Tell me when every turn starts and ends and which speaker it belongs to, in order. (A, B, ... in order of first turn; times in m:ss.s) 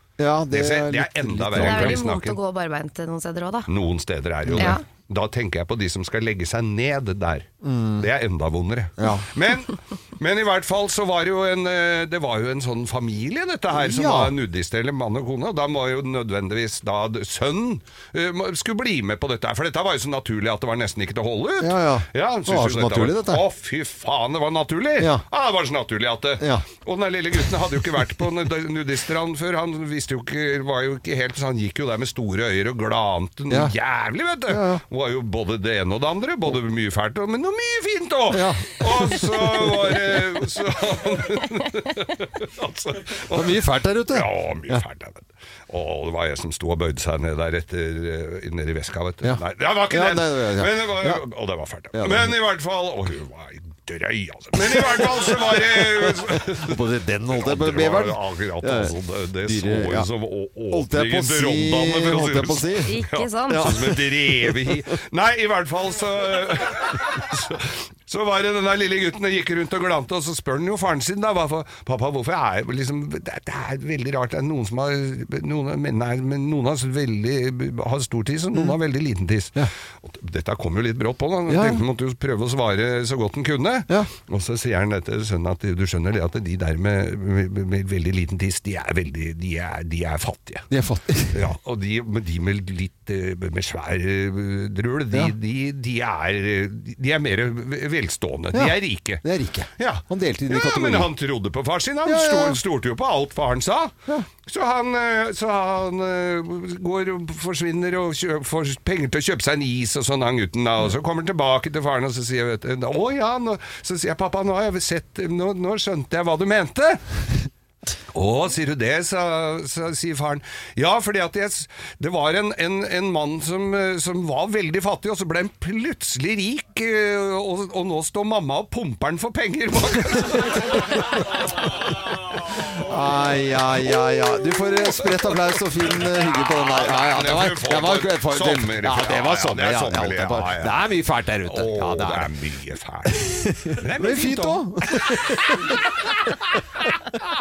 0:00.2-0:02.0 A
0:00.5-0:02.4 B
0:01.5-0:03.7 C
0:03.7-0:07.5 B
0:04.4-0:04.8 A
0:04.5-0:04.8 C
0:07.6-0:08.1 A
0:08.0-0:56.8 B
0:09.0-0:09.3 A
0:13.7-0:14.3 A
0:21.6-0:23.4 A
0:26.4-0:26.7 A
0:34.5-0:34.8 A
0:38.3-0:39.2 A
0:43.3-0:44.8 A
0:49.2-0:51.2 A
0:51.9-0:52.3 A
0:54.6-0:58.9 A
0:57.3-1:30.7 B
0:59.5-1:00.1 A
1:00.7-1:04.7 A
1:02.8-1:03.7 C
1:21.5-1:21.8 A
1:30.7-1:31.4 A
1:31.3-1:39.2 B
1:38.5-1:41.1 A
1:39.8-1:57.0 B
1:42.0-1:42.6 A
1:58.1-2:20.8 B
2:10.3-2:11.2 A
2:12.6-2:22.3 A
2:21.4-2:25.5 B
2:23.2-2:25.7 A